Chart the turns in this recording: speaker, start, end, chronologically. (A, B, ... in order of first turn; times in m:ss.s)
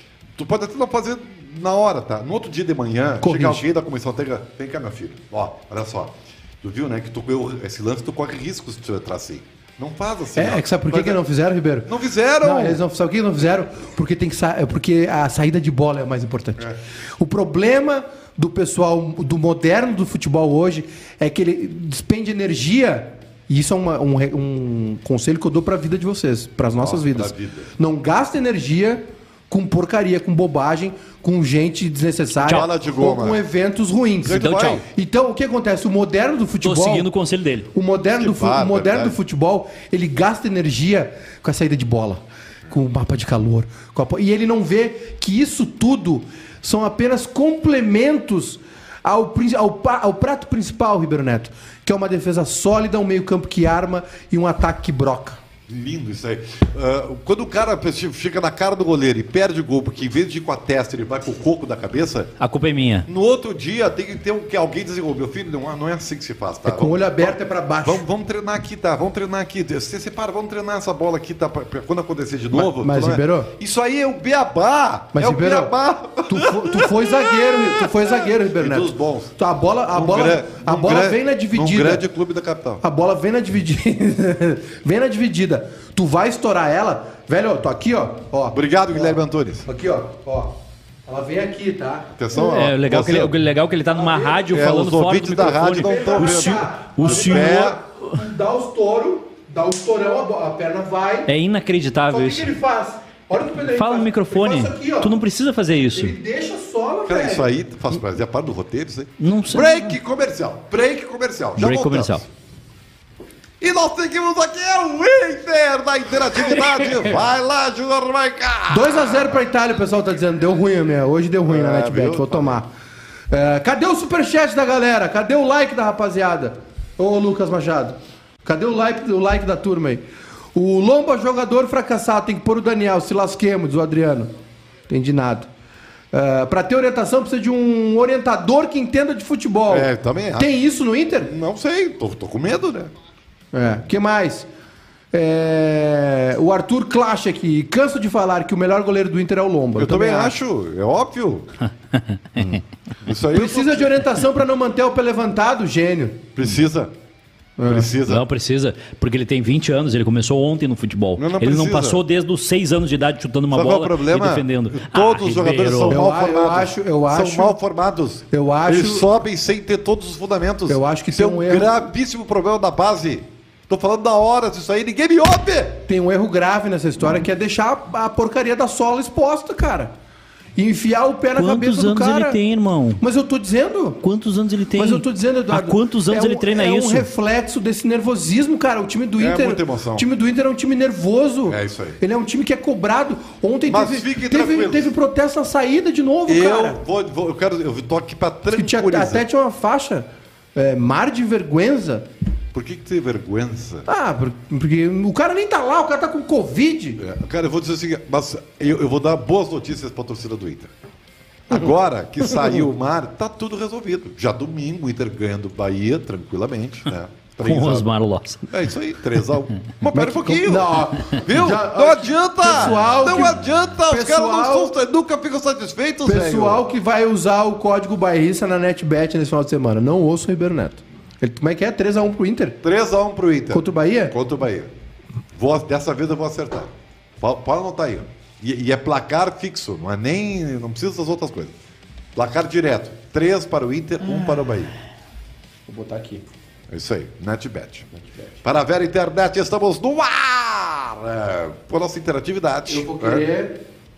0:00.4-0:11.2 A
0:03.2-0:03.6 B
0:10.4-0:37.1 B
0:11.9-0:12.8 A
0:26.8-0:27.7 A
0:32.4-0:33.4 A
0:34.2-0:34.8 A
0:34.3-0:34.8 C
0:36.6-0:37.7 C
0:37.7-0:55.4 B
0:38.1-0:39.2 A
0:55.7-1:02.3 A
1:02.4-1:03.1 C
1:03.1-1:19.3 A
1:06.6-1:08.0 B
1:12.5-1:13.5 B
1:15.1-1:15.7 B
1:16.2-1:22.0 B
1:19.9-1:22.8 A
1:22.8-1:30.5 B
1:28.5-1:29.7 A
1:31.1-1:32.1 B
1:32.2-1:33.3 A
1:32.3-1:37.8 C
1:33.9-1:34.5 B
1:34.5-1:37.8 A
1:35.4-1:41.3 B
1:41.3-1:42.5 C
1:42.1-1:45.2 B
1:43.6-1:46.2 C
1:45.9-1:47.5 B
1:47.0-1:52.3 A
1:49.2-1:49.9 C
1:51.6-1:52.2 C
1:53.6-1:59.4 A
1:58.7-2:02.7 B
2:01.4-2:02.6 A
2:03.3-2:10.0 B
2:10.5-2:14.3 B
2:14.9-2:15.5 B
2:16.1-2:21.3 B
2:19.7-2:20.5 A
2:21.2-2:22.9 A
2:23.5-2:24.5 B
2:25.1-2:30.3 B
2:29.8-2:31.5 A
2:31.9-2:32.6 C
2:33.0-2:34.0 A
2:33.3-2:36.3 B
2:36.4-2:36.9 A
2:37.6-2:37.9 B
2:37.6-2:38.2 A
2:38.1-2:46.0 C
2:41.2-2:42.0 A
2:43.5-2:55.8 A
2:45.9-2:47.6 B
2:48.3-2:49.1 B
2:50.7-2:51.8 B
2:55.9-2:59.9 B
3:00.6-3:02.4 B
3:01.4-3:03.0 C
3:03.0-3:04.0 B
3:04.0-3:07.1 C
3:04.7-3:16.8 B
3:09.2-3:10.0 A
3:11.4-3:12.0 A
3:13.7-3:14.9 A
3:16.3-3:19.2 A
3:18.5-3:22.0 B
3:22.5-3:23.8 A
3:23.9-3:27.0 B
3:27.0-3:30.7 A
3:31.5-3:37.9 A
3:32.3-3:32.6 B
3:37.4-3:38.5 C
3:38.5-3:46.6 A
3:39.9-3:44.7 B
3:46.0-3:52.6 B
3:52.6-3:54.7 A
3:53.5-3:54.1 B
3:55.3-4:01.5 A
4:02.1-4:04.7 A
4:05.7-4:06.2 B
4:06.7-4:13.2 A
4:12.7-4:13.6 B